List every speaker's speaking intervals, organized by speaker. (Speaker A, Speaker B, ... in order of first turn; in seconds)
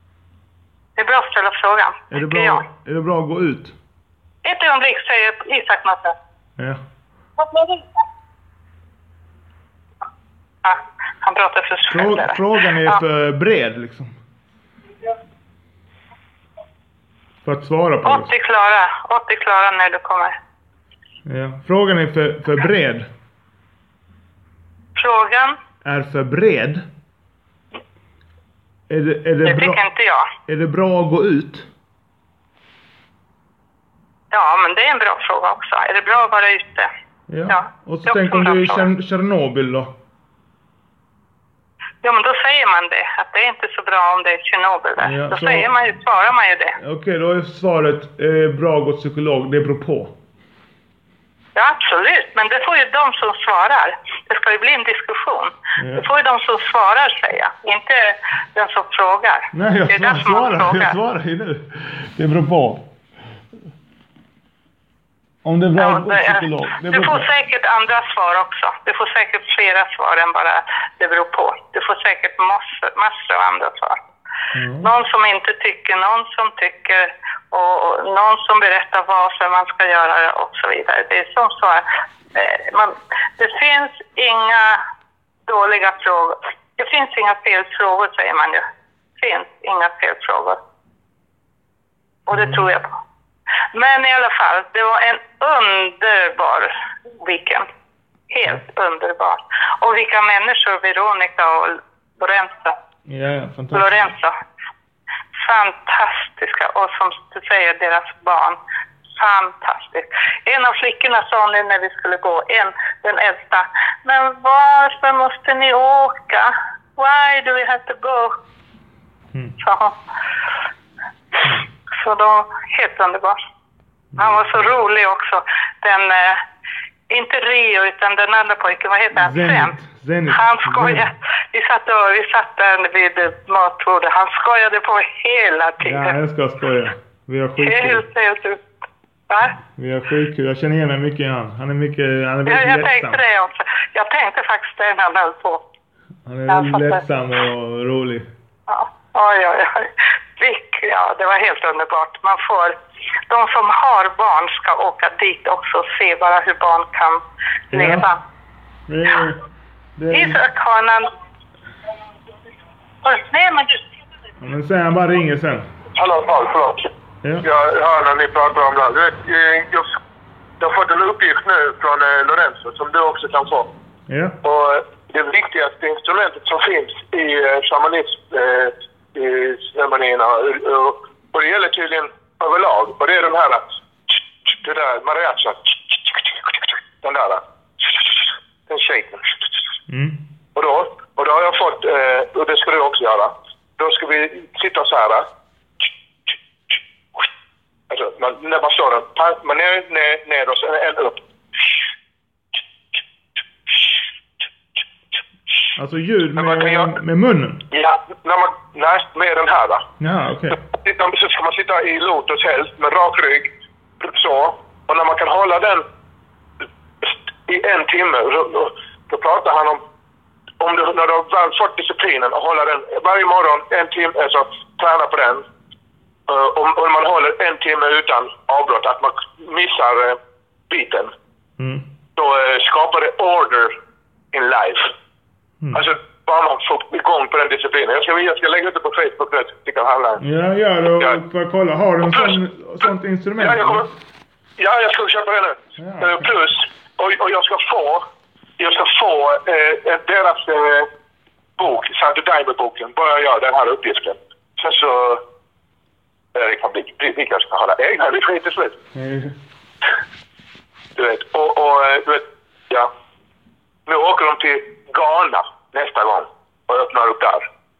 Speaker A: 1.0-2.6, 4.4-6.2, 7.4-7.8, 10.6-13.0, 18.0-20.4, 24.9-25.6, 29.4-30.3, 34.3-36.9, 37.5-38.9, 42.0-46.8, 51.5-60.9, 65.8-74.0, 74.8-84.8, 85.5-88.6, 89.2-90.6, 92.3-92.9, 93.7-97.7, 98.3-102.8, 103.7-104.3, 105.3-108.6, 109.1-118.3, 119.6-120.0, 121.9-123.4, 124.2-126.4, 127.1-129.7, 130.3-136.2, 137.6-138.6, 139.3-139.6, 142.4-145.6, 146.5-147.0, 148.7-152.8, 153.3-158.2, 160.1-161.1, 163.0-163.8
Speaker B: 2.1-3.7, 11.9-14.2, 17.4-18.3, 21.2-23.1, 25.8-26.8, 28.9-29.8, 30.4-31.7, 37.3-39.9, 45.0-45.7, 46.8-50.1, 55.8-56.1, 59.5-62.9, 65.4-67.3, 74.5-74.9, 92.3-92.7, 103.1-104.1, 124.1-124.7, 129.1-131.1, 135.8-138.0, 139.7-143.2, 146.2-148.3, 157.7-158.1, 158.9-159.4, 160.0-160.4, 164.4-165.7, 174.1-174.4, 189.9-190.2, 205.8-207.6, 210.0-210.6, 231.6-231.9, 240.2-243.9, 245.8-246.3, 258.9-259.4
Speaker C: 165.9-166.9, 167.4-169.9, 170.6-173.7, 174.4-183.6, 184.4-189.4, 190.5-195.3, 197.9-201.2, 206.4-206.9, 207.7-209.8, 210.6-215.8, 217.0-219.8, 220.6-225.4, 226.3-230.2, 230.7-231.1, 232.2-233.7, 234.3-234.9, 235.7-240.2, 242.0-242.3, 243.4-243.9, 244.6-248.0, 248.6-250.9, 251.6-255.2, 256.3-258.8, 260.9-262.9, 263.9-267.4